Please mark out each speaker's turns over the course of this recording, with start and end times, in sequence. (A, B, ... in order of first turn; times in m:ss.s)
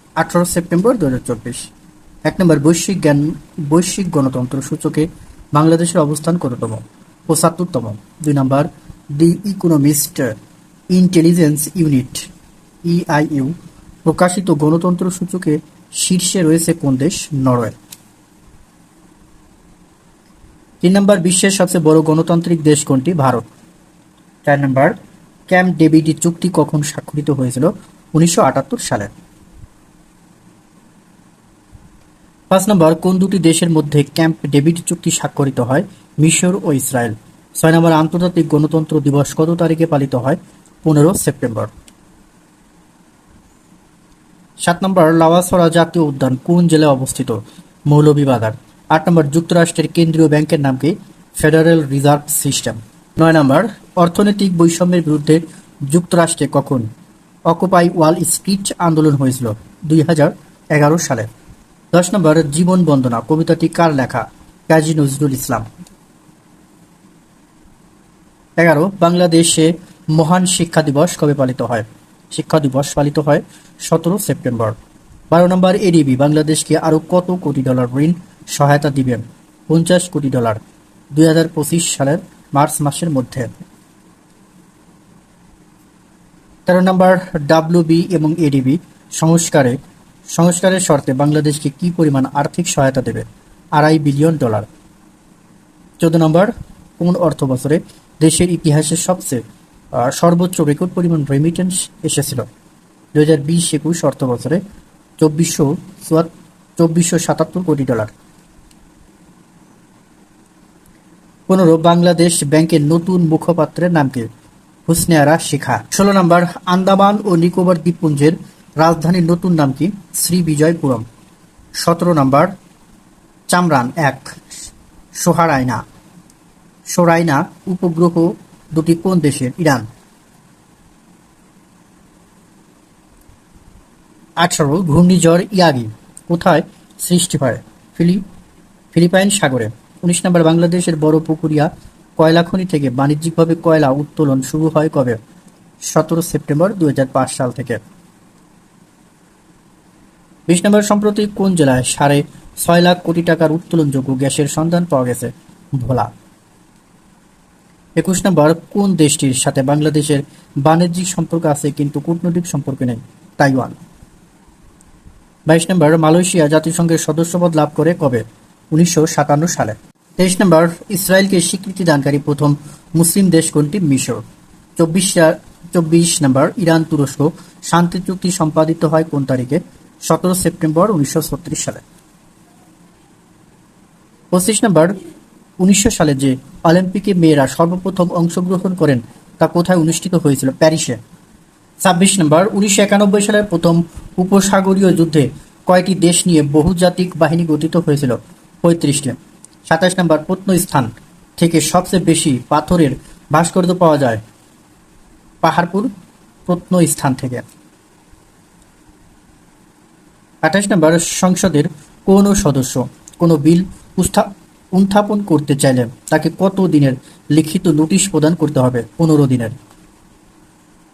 0:00.2-0:01.7 A
0:02.2-0:10.4 A
0:10.9-0:12.3 A
0:12.8-0:17.8 A
0:20.8-0:23.5 A
0:24.4-0:25.0 A
0:25.5-0:29.1 A
0:32.5-0:41.7 A
0:44.6-0:56.9 A
0:57.5-1:01.3 A
1:01.9-1:05.7 A
1:08.6-1:14.8 A
1:15.3-1:20.6 A
1:21.1-1:23.6 A
1:26.7-1:29.8 A
1:30.3-1:34.7 A
1:36.0-1:39.4 A
1:39.9-1:42.5 A
1:43.2-1:44.6 A
1:45.2-1:48.1 A
1:51.5-1:54.3 A
1:54.9-2:01.0 A
2:01.8-2:02.5 A
2:03.5-2:04.4 A
2:05.2-2:05.8 A
2:06.9-2:09.9 A
2:14.4-2:18.2 A
2:18.9-2:25.2 A
2:25.9-2:27.8 A
2:30.5-2:36.1 A
2:38.0-2:43.8 A
2:45.5-2:54.2 A
2:54.8-3:01.8 A
3:04.3-3:05.0 A
3:05.6-3:11.0 A
3:11.8-3:19.2 A
3:19.7-3:24.2 A
3:25.4-3:25.9 A
3:26.5-3:27.5 A
3:30.4-3:39.6 A